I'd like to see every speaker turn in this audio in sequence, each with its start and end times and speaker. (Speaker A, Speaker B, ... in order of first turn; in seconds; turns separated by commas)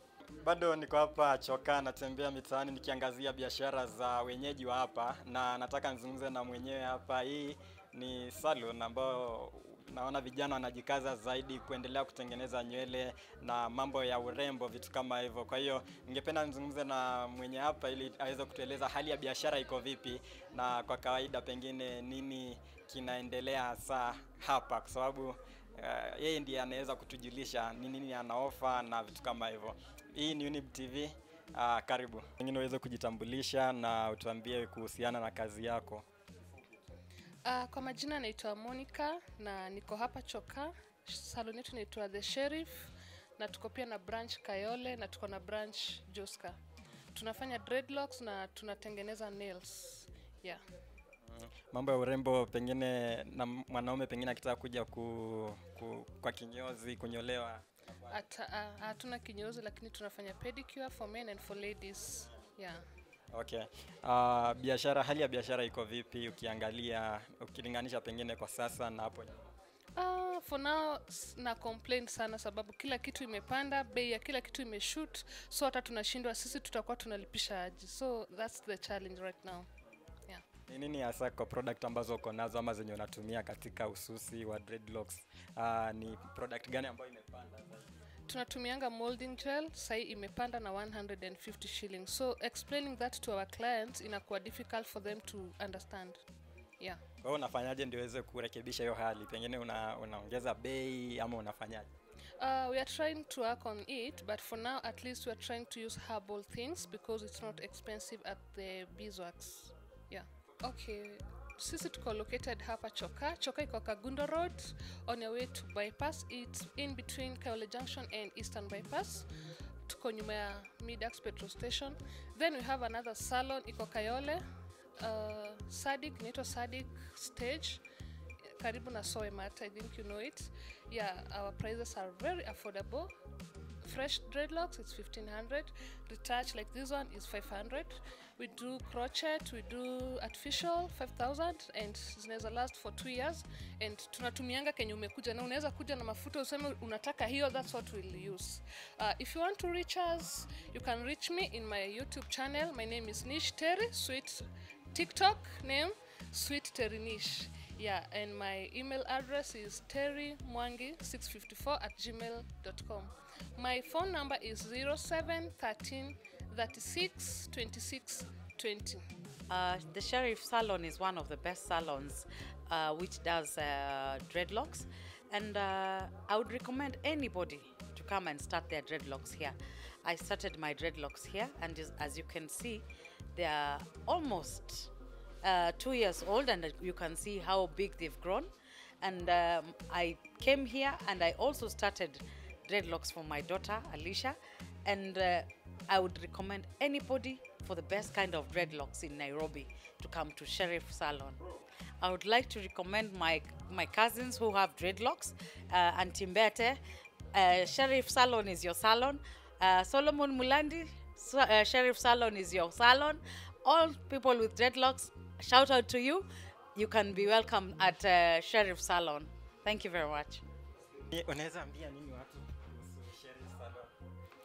Speaker A: 0.2-36.0, Speaker B: 37.4-46.6, Speaker B: 47.1-50.6, Speaker A: 51.2-58.2, Speaker B: 58.1-62.8, Speaker A: 63.3-69.5, Speaker B: 70.0-79.7, Speaker A: 80.7-87.9, Speaker B: 88.3-96.2, Speaker A: 97.2-101.9, Speaker B: 102.4-119.3, Speaker B: 119.8-124.4, Speaker B: 125.0-127.8, Speaker B: 128.6-133.1, Speaker B: 133.8-169.0, Speaker C: 169.5-201.4, Speaker C: 202.0-206.8, Speaker C: 207.3-220.5, Speaker A: 220.9-223.9